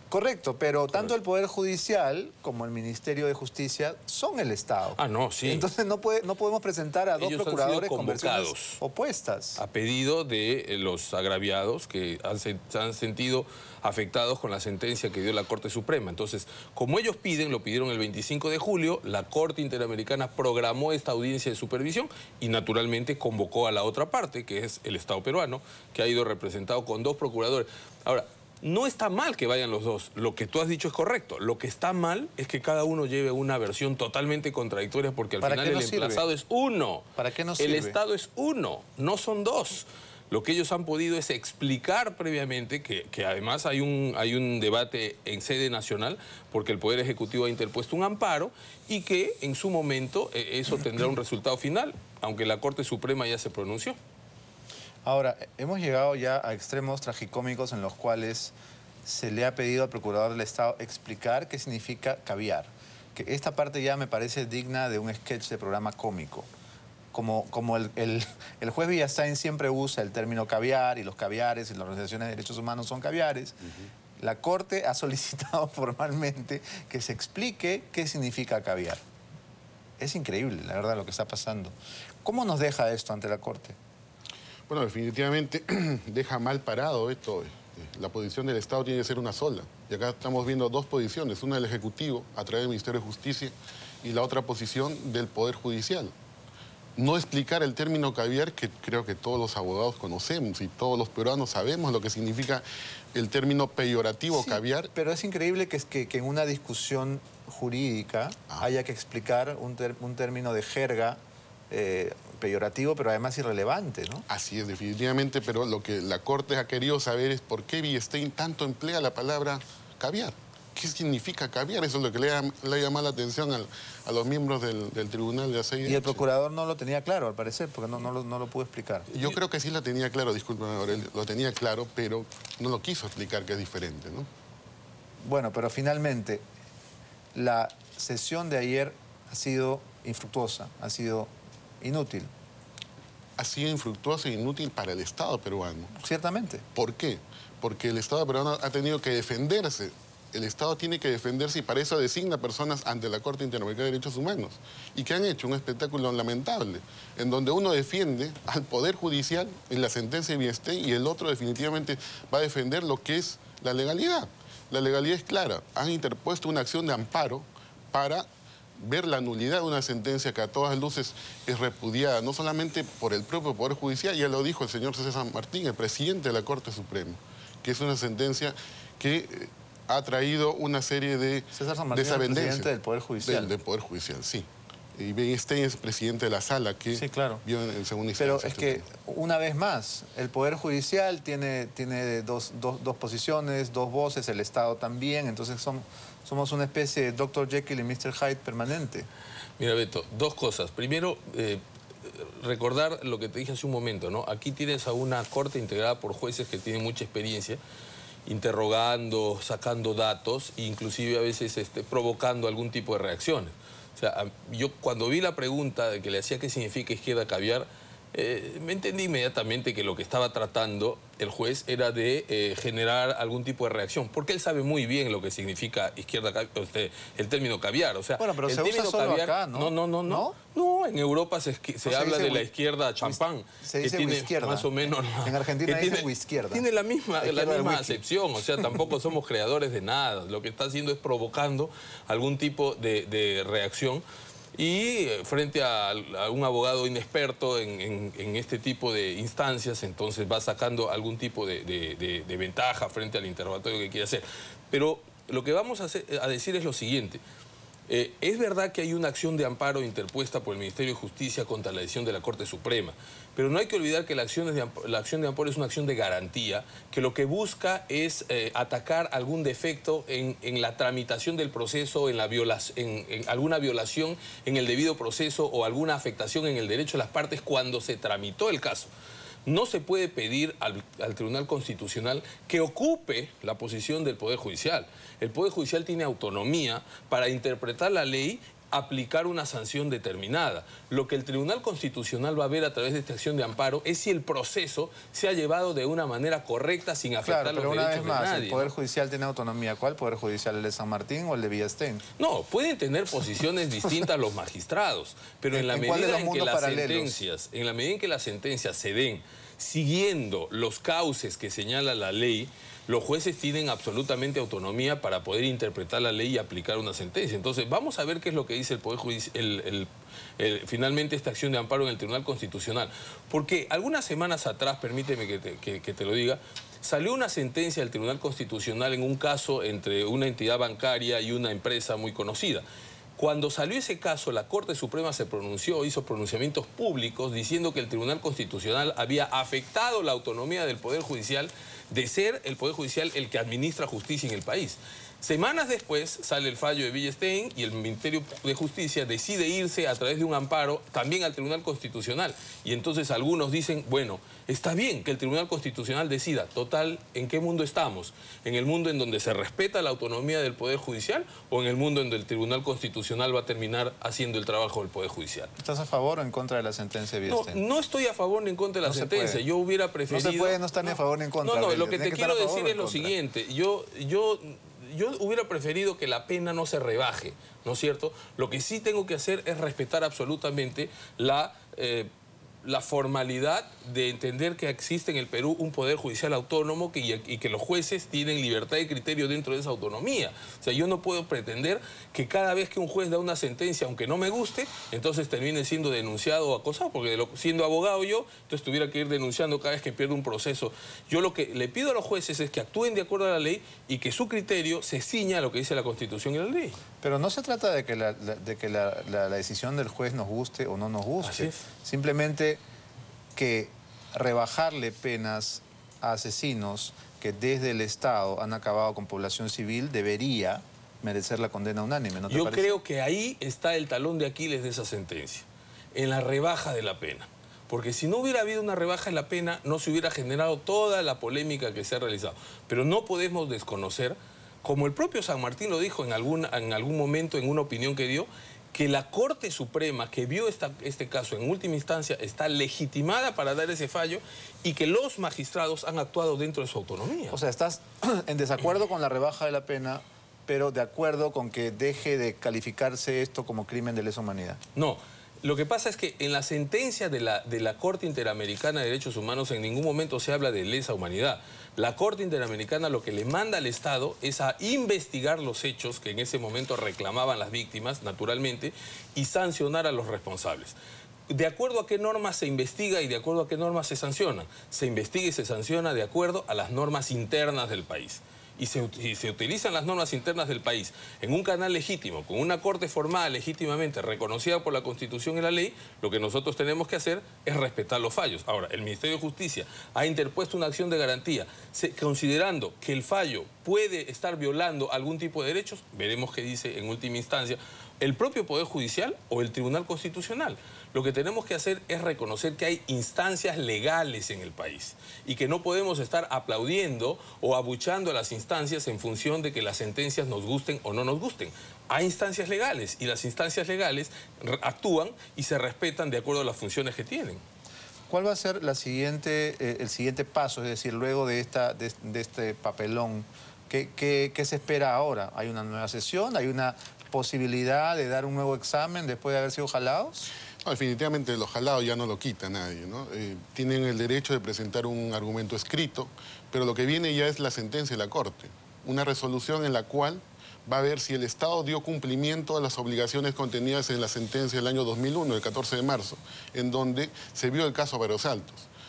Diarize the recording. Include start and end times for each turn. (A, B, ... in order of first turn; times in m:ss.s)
0:00.1-0:09.6 A
0:05.0-0:05.7 B
0:07.2-0:08.8 B
0:09.6-0:54.0 B
0:35.4-0:36.3 A
0:37.2-0:38.0 A
0:55.0-1:06.5 A
1:07.1-1:13.6 A
1:14.2-1:19.0 A
1:20.0-1:23.8 A
1:24.7-1:36.1 C
1:37.0-1:44.9 C
1:44.3-1:51.2 A
1:51.7-1:54.3 A
1:54.3-2:06.2 C
2:05.8-2:09.1 A
2:09.1-2:14.3 C
2:15.2-2:16.4 A
2:17.4-2:21.3 A
2:21.8-2:22.3 A
2:23.4-2:25.9 C
2:26.0-2:26.6 A
2:26.8-2:48.3 C
2:48.8-3:08.8 C
3:01.5-3:03.5 A
3:06.9-3:07.4 A
3:08.2-3:19.1 A
3:19.6-3:27.6 B
3:28.3-4:04.0 B
3:48.2-3:50.4 A
3:51.8-3:52.5 A
3:53.0-3:56.6 A
3:57.2-3:58.0 A
4:04.6-4:17.2 B
4:17.9-4:38.9 B
4:39.5-4:58.7 B
4:57.2-5:02.0 A
5:02.2-5:32.6 B
5:05.5-5:07.2 A
5:33.2-6:05.5 B
6:05.6-6:07.6 A
6:07.3-6:22.1 B
6:08.8-6:09.4 A
6:10.1-6:13.1 A
6:22.6-6:46.8 B
6:47.0-6:52.6 A
6:51.2-6:51.6 B
6:53.4-7:02.8 A
7:02.3-7:27.4 B
7:27.3-7:34.6 A
7:34.8-7:50.8 B
7:51.3-8:37.4 B
8:38.1-8:50.3 A
8:50.6-9:08.7 C